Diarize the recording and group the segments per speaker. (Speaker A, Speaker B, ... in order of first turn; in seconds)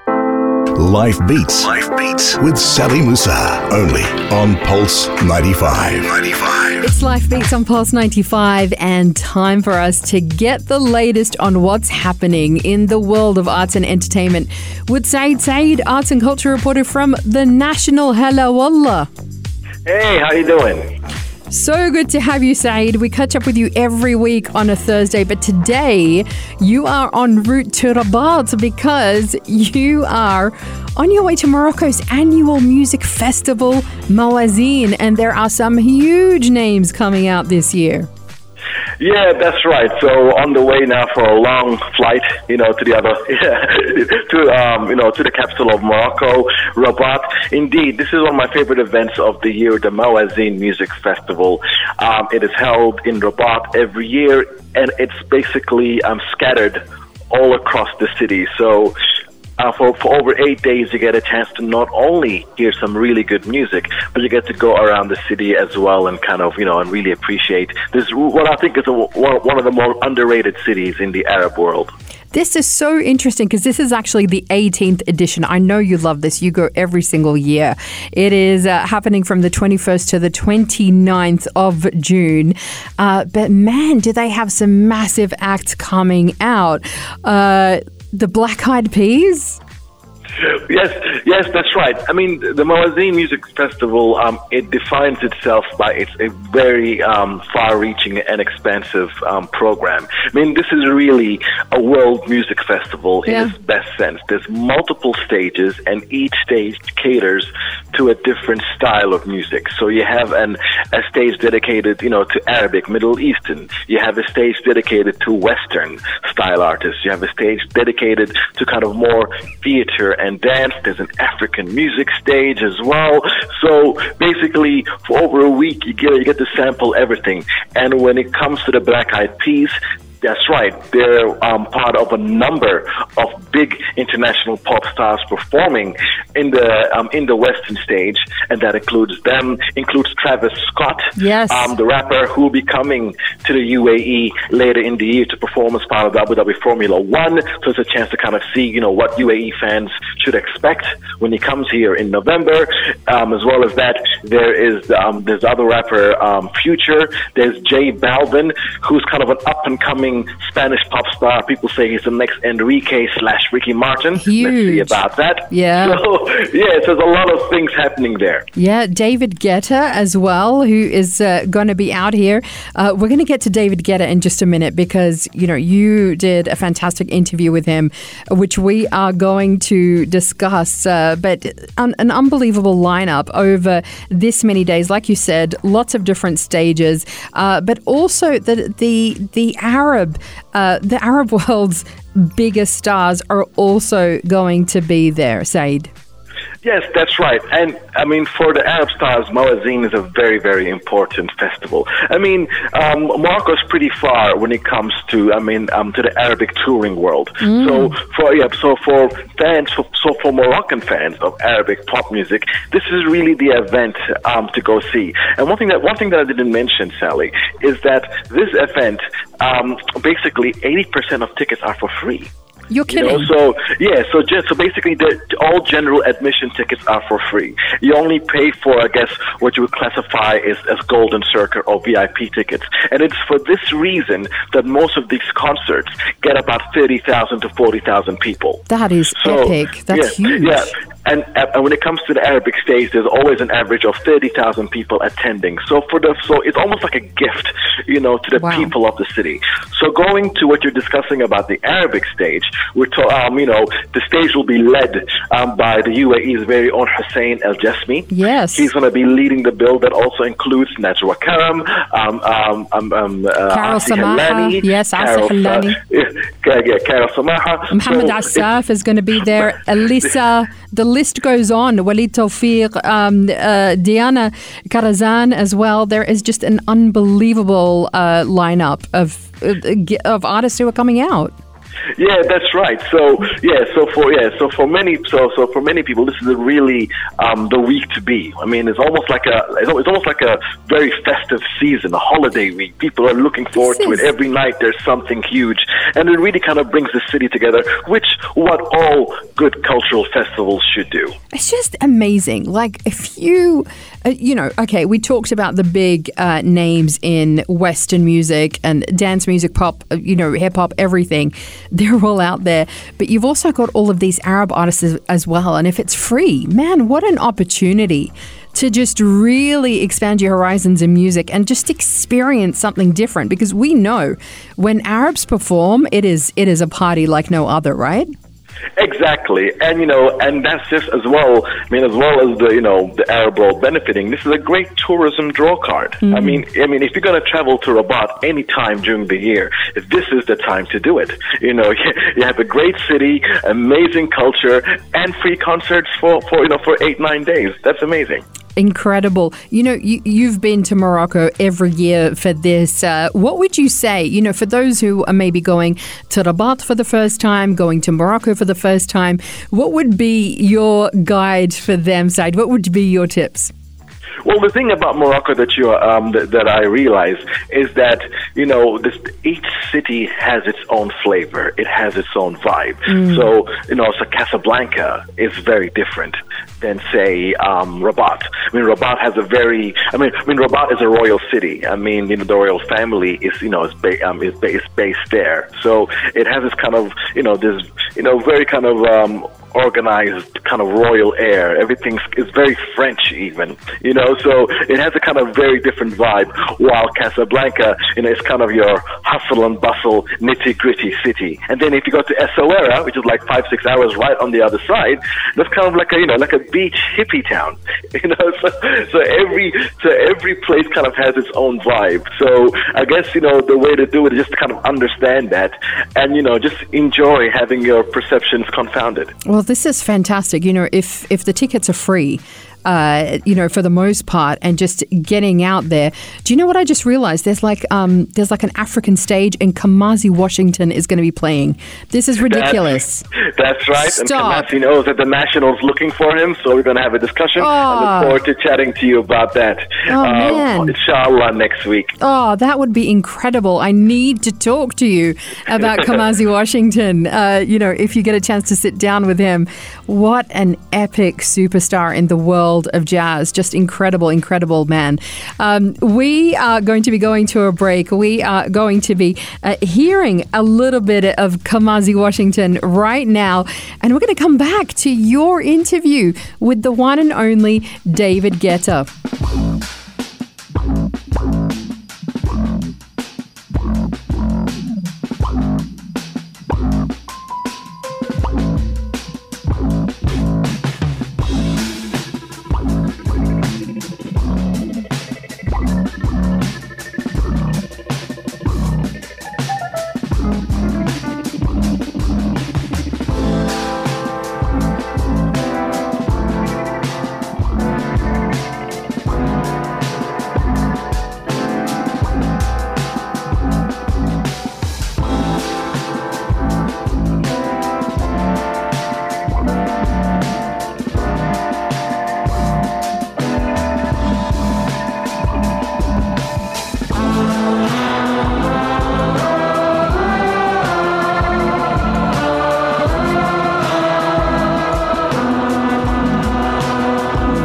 Speaker A: 0.7-6.8
Speaker B: 6.8-19.1, 21.5-38.1, 72.3-89.6, 103.2-103.5, 141.2-141.7, 164.2-166.0, 168.6-195.9, 207.4-207.9, 222.7-223.3, 238.7-240.7, 248.4-248.7, 258.1-258.7, 263.5-265.8, 267.7-281.3, 293.6-294.1, 301.3-328.1, 336.1-336.4, 348.6-363.5, 372.9-373.2, 419.2-433.0, 433.7-434.5, 437.4-438.2, 439.9-440.7, 442.0-468.9
Speaker C: 19.9-20.9, 39.0-59.0, 59.6-71.9, 90.4-168.4, 196.6-222.3, 222.9-238.6, 239.2-268.4, 282.0-301.1, 328.8-348.2, 364.2-419.1, 432.2-441.9